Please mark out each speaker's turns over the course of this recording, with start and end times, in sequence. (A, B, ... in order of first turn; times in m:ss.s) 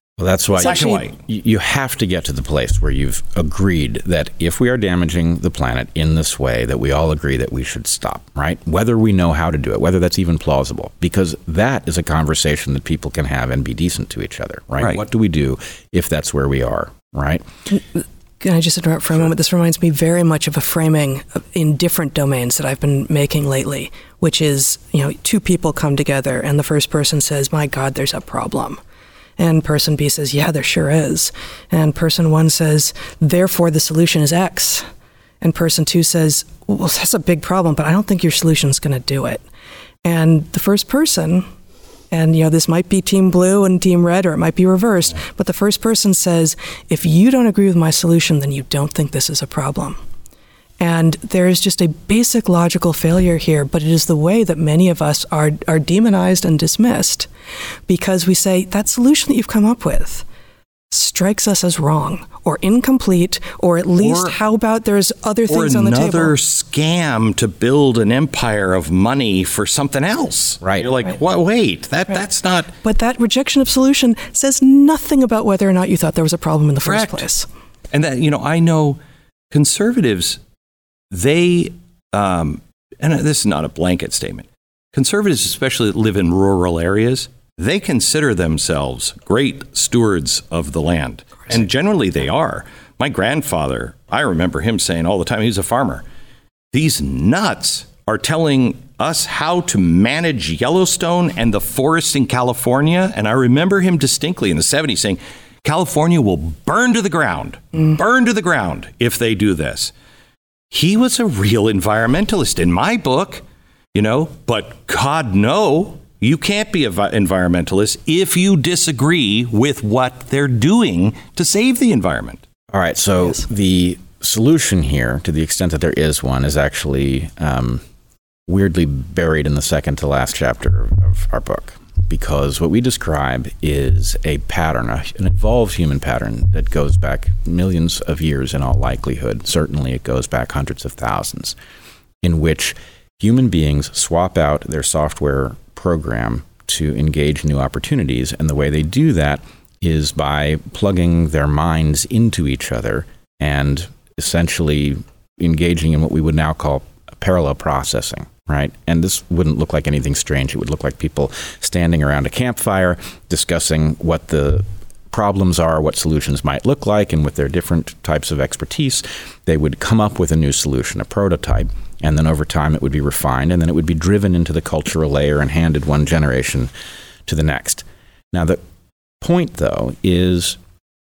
0:00.2-0:17.4 A
0:00.6-0:01.2 B
0:00.6-0:01.0 C
0:17.7-0:28.8 C
0:29.4-0:34.9 C
0:35.4-0:39.4 C
0:40.0-0:41.5 C
0:42.1-0:50.0 C
0:50.8-0:57.3 C
0:57.9-1:00.2 C
1:00.9-1:06.3 C
1:04.0-1:04.4 B
1:05.5-1:12.7 B
1:10.6-1:10.9 A
1:12.8-1:17.5 C
1:16.8-1:17.2 B
1:17.9-1:19.0 B
1:19.5-1:20.4 B
1:21.1-1:36.0 B
1:36.7-1:49.9 B
1:50.7-2:02.4 B
2:02.7-2:07.8 A
2:08.5-2:21.6 A
2:22.2-2:56.7 A
2:57.3-2:58.6 A
2:59.2-3:00.6 A